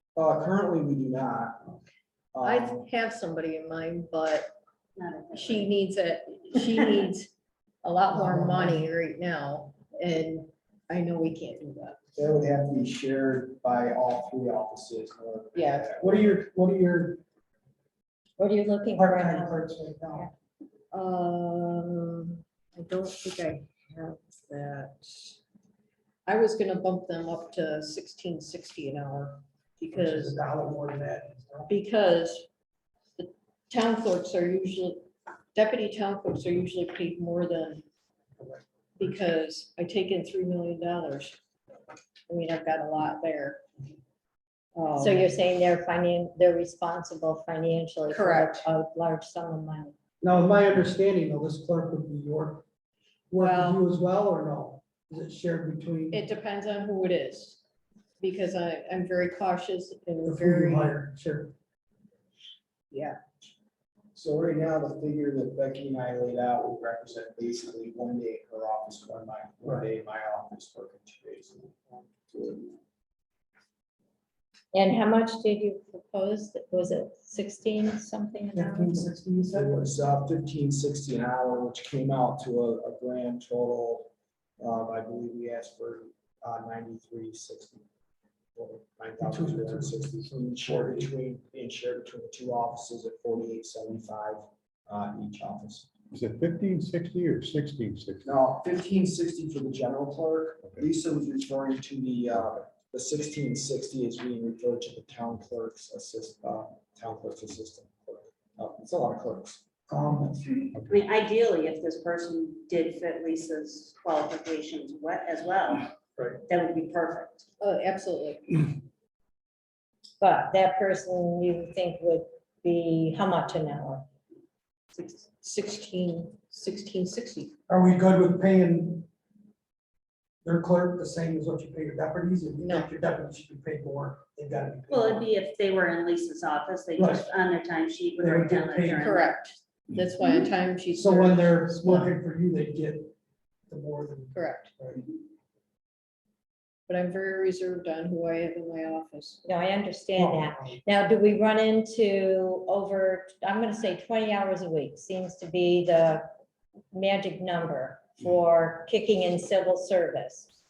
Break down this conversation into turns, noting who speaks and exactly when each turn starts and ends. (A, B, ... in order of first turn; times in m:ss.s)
0:00.1-0:01.8 A
0:02.3-0:02.8 A
0:02.4-0:04.5 B
0:05.0-0:05.7 C
0:05.3-0:07.3 B
0:07.8-0:12.0 B
0:08.1-0:08.9 D
0:12.2-0:16.3 A
0:15.5-0:15.9 B
0:16.0-0:17.2 D
0:18.4-0:20.3 E
0:19.0-0:20.3 D
0:20.9-0:25.4 B
0:26.2-0:30.4 B
0:29.9-0:31.8 D
0:31.7-0:32.5 B
0:33.2-0:37.8 B
0:38.4-0:39.2 D
0:39.0-0:41.4 B
0:42.3-0:43.6 B
0:44.7-0:45.3 B
0:45.0-0:50.0 E
0:48.1-0:48.7 B
0:50.2-0:52.6 D
0:53.3-0:56.2 D
0:53.4-0:53.8 B
0:56.1-0:57.6 B
0:58.2-1:01.0 B
1:00.2-1:01.5 D
1:02.9-1:03.2 B
1:04.1-1:12.8 A
1:14.7-1:19.1 E
1:18.6-1:19.9 D
1:19.5-1:27.8 A
1:28.5-1:35.9 A
1:29.2-1:31.1 D
1:36.1-1:38.3 F
1:38.2-1:49.6 A
1:49.9-1:50.7 D
1:50.9-1:55.9 C
1:56.5-1:57.4 C
1:57.6-1:58.7 B
2:00.2-2:04.0 E
2:05.0-2:07.5 B
2:07.7-2:09.1 D
2:10.4-2:15.3 D
2:12.6-2:12.9 B
2:14.9-2:19.4 C
2:17.0-2:17.3 D
2:18.2-2:19.1 D
2:19.0-2:22.2 B
2:20.9-2:23.1 D
2:23.7-2:25.0 D
2:24.3-2:24.7 B
2:26.9-2:29.4 B
2:29.4-2:36.3 E
2:30.2-2:30.8 D
2:36.9-2:40.5 E